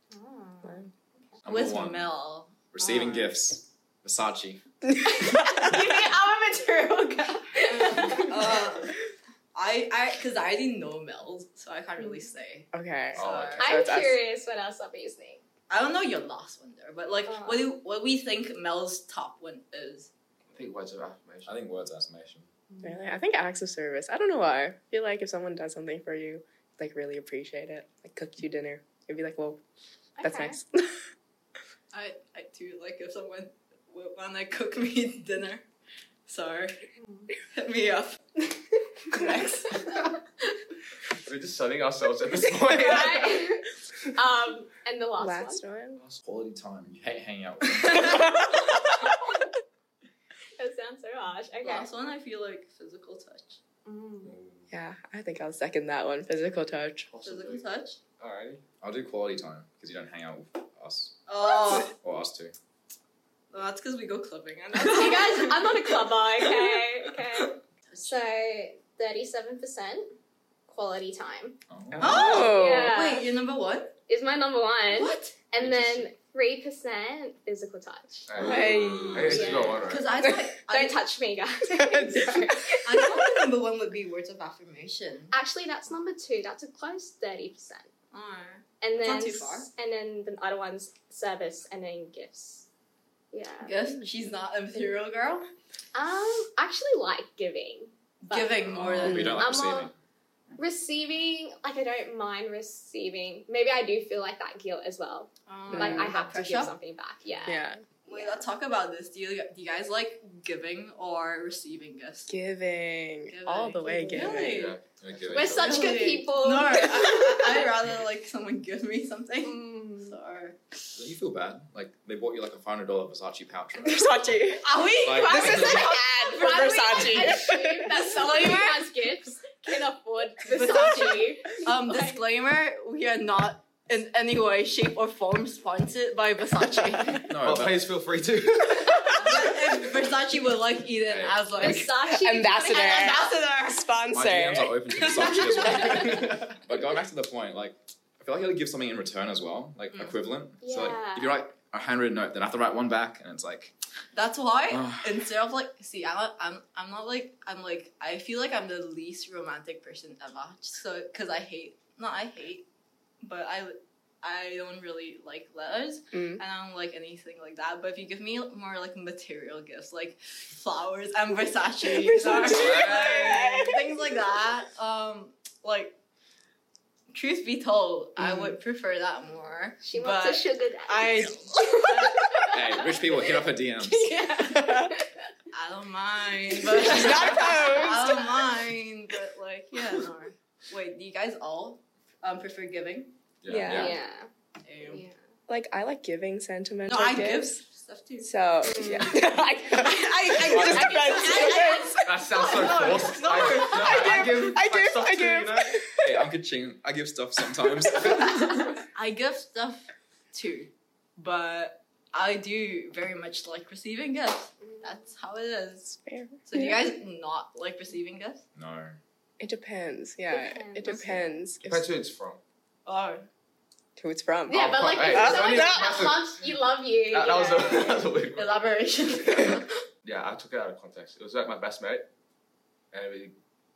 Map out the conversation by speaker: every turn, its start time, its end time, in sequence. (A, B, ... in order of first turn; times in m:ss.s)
0:00.1-0:01.3 A
0:01.4-0:04.6 B
0:01.5-0:03.3 C
0:04.9-0:05.8 D
0:05.0-0:08.6 A
0:07.7-0:09.0 C
0:09.5-0:13.7 C
0:12.7-0:14.2 D
0:13.2-0:13.8 E
0:13.6-0:15.4 A
0:15.7-0:20.1 C
0:17.3-0:17.7 A
0:20.5-0:21.6 E
0:21.5-0:22.5 B
0:22.7-0:23.0 A
0:22.8-0:29.6 D
0:30.2-0:30.6 A
0:30.2-0:31.0 D
0:31.9-0:35.6 C
0:36.3-0:36.8 C
0:37.0-0:37.3 A
0:37.4-0:38.2 C
0:39.1-0:40.0 C
0:41.2-0:43.5 E
0:42.7-0:45.6 A
0:45.2-0:46.0 D
0:46.2-0:48.3 B
0:50.6-0:51.9 A
0:51.6-0:53.6 C
0:53.8-0:54.3 A
0:54.2-0:54.7 B
0:54.7-0:57.1 D
0:57.1-0:57.6 E
0:57.2-0:58.0 C
0:58.2-0:58.6 E
0:58.8-1:02.5 B
1:01.3-1:01.9 C
1:03.5-1:06.1 C
1:04.7-1:10.1 A
1:10.7-1:11.6 A
1:11.7-1:12.3 B
1:12.0-1:12.9 D
1:12.0-1:14.0 C
1:12.3-1:13.3 A
1:14.1-1:18.3 A
1:14.9-1:15.4 C
1:18.3-1:20.1 E
1:18.4-1:19.8 B
1:18.4-1:19.3 D
1:19.2-1:19.8 A
1:19.8-1:21.0 C
1:20.6-1:23.1 A
1:21.7-1:23.0 D
1:22.8-1:25.4 C
1:25.3-1:27.9 A
1:28.1-1:29.7 C
1:28.8-1:32.7 A
1:33.3-1:33.8 A
1:33.6-1:35.5 C
1:35.9-1:39.9 A
1:38.2-1:39.5 C
1:38.7-1:39.9 B
1:40.6-1:48.4 A
1:45.5-1:46.7 C
1:45.7-1:46.1 D
1:47.5-1:47.8 D
1:48.0-1:52.3 C
1:52.3-1:54.6 D
1:53.3-1:54.8 C
1:53.8-1:54.4 A
1:54.3-1:55.5 E
1:55.0-1:55.9 B
1:55.3-1:57.2 A
1:55.6-2:01.0 C
1:59.4-2:00.2 A
2:01.0-2:04.1 B
2:03.8-2:04.7 D
2:04.6-2:07.5 C
2:05.0-2:05.9 B
2:05.2-2:08.7 D
2:05.4-2:12.2 A
2:08.2-2:08.7 C
2:10.4-2:17.2 C
2:17.2-2:17.9 B
2:17.3-2:19.2 E
2:18.8-2:19.4 D
2:19.1-2:21.9 C
2:21.1-2:21.8 B
2:21.6-2:23.3 A
2:21.6-2:24.8 D
2:22.7-2:23.9 C
2:24.1-2:33.7 B
2:25.0-2:26.4 C
2:25.7-2:26.3 A
2:30.6-2:31.4 A
2:34.1-2:42.7 C
2:34.7-2:35.2 B
2:43.2-2:56.0 C
2:46.1-2:46.4 D
2:51.8-2:54.0 D
2:52.4-2:53.6 B
2:57.1-3:02.4 C
2:58.2-2:58.5 D
2:59.8-3:03.3 A
3:02.4-3:04.2 B
3:03.8-3:05.1 A
3:04.4-3:05.0 D
3:05.5-3:13.2 C
3:06.7-3:08.5 D
3:07.4-3:07.8 A
3:13.4-3:13.9 E
3:13.5-3:13.9 D
3:13.5-3:13.9 B
3:13.6-3:14.3 A
3:14.6-3:15.1 C
3:14.9-3:15.2 A
3:15.5-3:17.6 D
3:16.9-3:24.5 C
3:18.2-3:22.2 D
3:18.7-3:19.2 A
3:20.6-3:22.0 A
3:22.0-3:25.8 E
3:22.8-3:26.2 D
3:26.0-3:28.8 B
3:28.9-3:38.4 C
3:34.6-3:35.0 A
3:36.0-3:36.8 D
3:38.6-3:39.0 B
3:39.4-3:41.9 D
3:40.3-3:41.3 A
3:40.8-3:41.1 C
3:41.6-3:42.4 E
3:42.9-3:43.2 C
3:44.0-3:46.1 D
3:44.5-3:48.1 A
3:44.5-3:46.5 E
3:47.1-3:48.6 E
3:48.3-3:49.7 C
3:50.0-3:52.1 E
3:52.9-3:53.4 E